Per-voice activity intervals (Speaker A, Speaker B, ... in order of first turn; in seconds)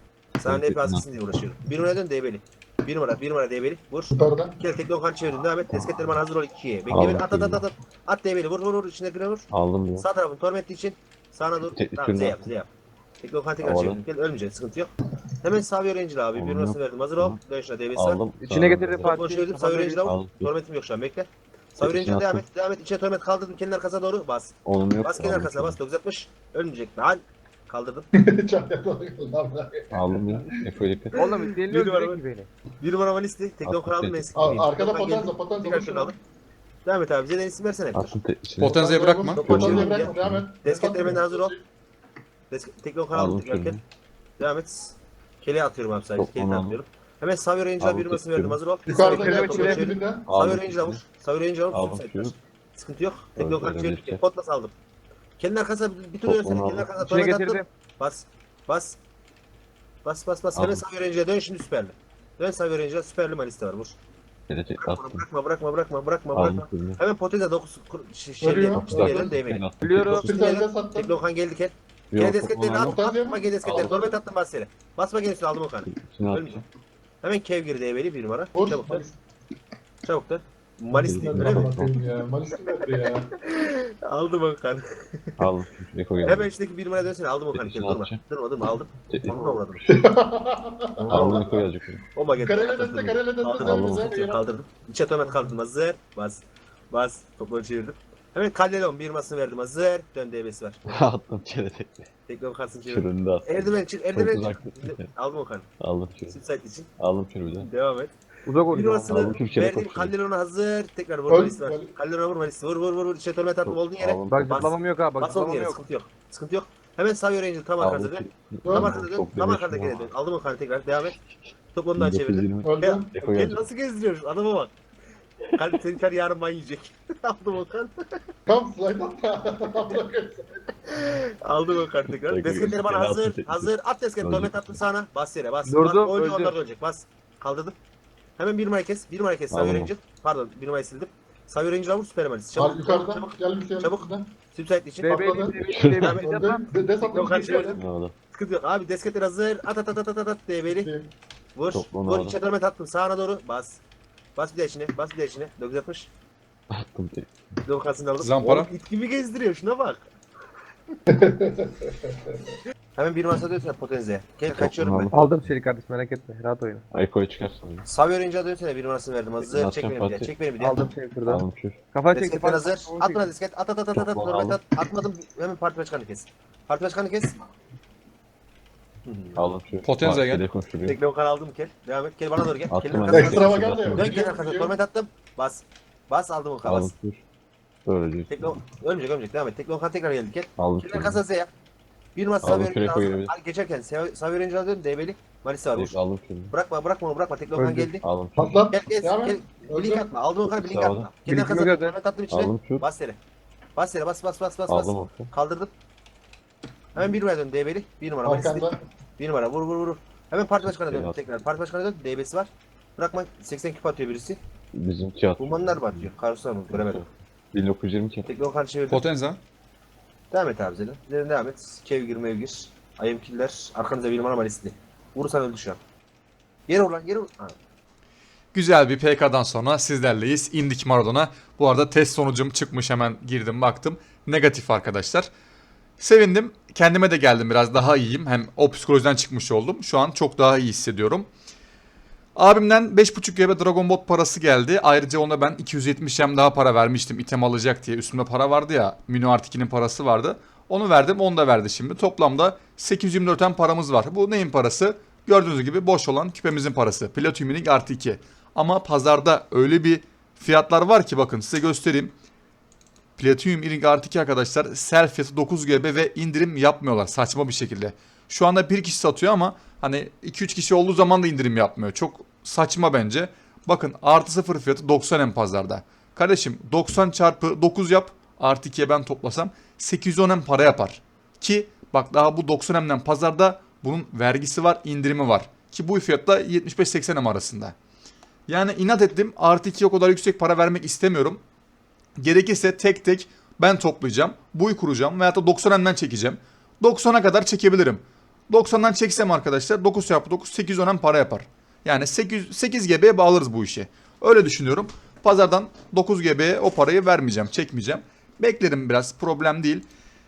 Speaker A: 0.4-12.7, 13.2-18.2, 19.0-28.1, 31.2-32.2, 32.8-36.1, 36.8-38.2, 39.4-41.5, 42.5-43.8, 44.4-54.7, 55.4-59.0, 60.0-64.0, 64.8-69.6, 70.2-76.6, 77.2-79.0, 80.0-81.8, 83.4-84.8, 86.2-89.8, 91.1-91.6, 92.1-101.1, 102.3-105.7, 106.3-106.9, 107.6-108.1, 108.7-121.2, 121.7-124.7, 125.5-127.9, 131.0-137.8, 138.4-145.2, 146.0-146.4, 147.1-147.8, 148.3-150.9, 151.5-153.8, 154.3-156.1, 157.7-160.0, 162.9-165.1, 167.8-170.9, 172.1-177.3, 179.0-179.4, 180.8-186.9, 188.3-191.5, 192.1-195.9, 196.5-198.0, 198.7-203.2, 203.8-205.7, 206.9-208.7, 209.2-214.4, 215.4-217.1, 218.3-219.0, 220.3-225.8, 226.7-227.6
Speaker B: 0.4-1.0, 6.9-7.6, 9.5-10.1, 11.7-12.5, 13.6-14.1, 16.3-17.4, 17.9-19.1, 20.1-20.5, 21.8-22.4, 24.6-25.8, 29.9-31.2, 33.6-34.6, 37.9-38.8, 39.4-40.5, 43.1-43.8, 46.2-46.8, 47.8-48.6, 50.2-51.0, 51.7-52.3, 53.4-54.2, 56.2-56.9, 60.5-60.8, 64.5-65.2, 66.3-67.0, 68.7-70.4, 72.1-73.0, 73.6-74.2, 75.8-76.6, 80.9-82.0, 85.4-86.5, 87.5-88.2, 89.1-89.8, 91.0-92.0, 93.6-94.2, 100.9-102.0, 102.9-105.1, 105.8-106.4, 107.0-107.7, 109.1-110.1, 113.6-114.6, 117.8-120.1, 121.3-123.6, 132.1-133.7, 134.2-134.8, 139.5-139.9, 145.7-146.1, 147.8-148.1, 151.7-152.3, 156.7-157.3, 164.5-165.3, 166.9-167.8, 169.5-170.3, 171.2-171.8, 173.9-174.6, 179.3-181.0, 182.7-184.2, 186.6-187.2, 187.8-188.6, 190.6-191.2, 192.4-193.3, 195.7-196.5, 198.0-198.6, 200.5-201.1, 202.3-202.8, 204.7-205.3, 210.7-211.2, 214.7-216.1, 216.7-218.3
Speaker C: 4.1-4.6, 28.1-30.4, 34.4-36.2, 38.6-41.6, 48.9-50.3, 68.4-69.3, 70.0-71.2, 72.7-73.5, 78.5-79.2, 81.0-83.3, 89.9-91.5, 92.3-94.5, 111.3-111.9, 118.6-119.0, 122.6-123.1, 128.4-130.4, 142.5-144.3, 145.1-147.8, 150.7-151.1, 161.1-162.4, 183.1-184.7, 197.6-200.1, 208.2-208.8
Speaker D: 18.5-20.0, 31.1-32.5, 49.0-49.8, 57.0-57.7, 69.8-70.3, 108.5-109.1, 114.3-115.8, 135.7-136.6, 145.0-147.7, 165.1-166.8, 170.6-173.3, 201.2-201.9
Speaker E: 38.6-39.4, 158.2-158.7, 179.8-180.4, 218.9-219.4, 228.5-235.3, 236.0-241.3, 242.3-262.1, 263.2-287.7, 288.5-291.4, 292.2-309.9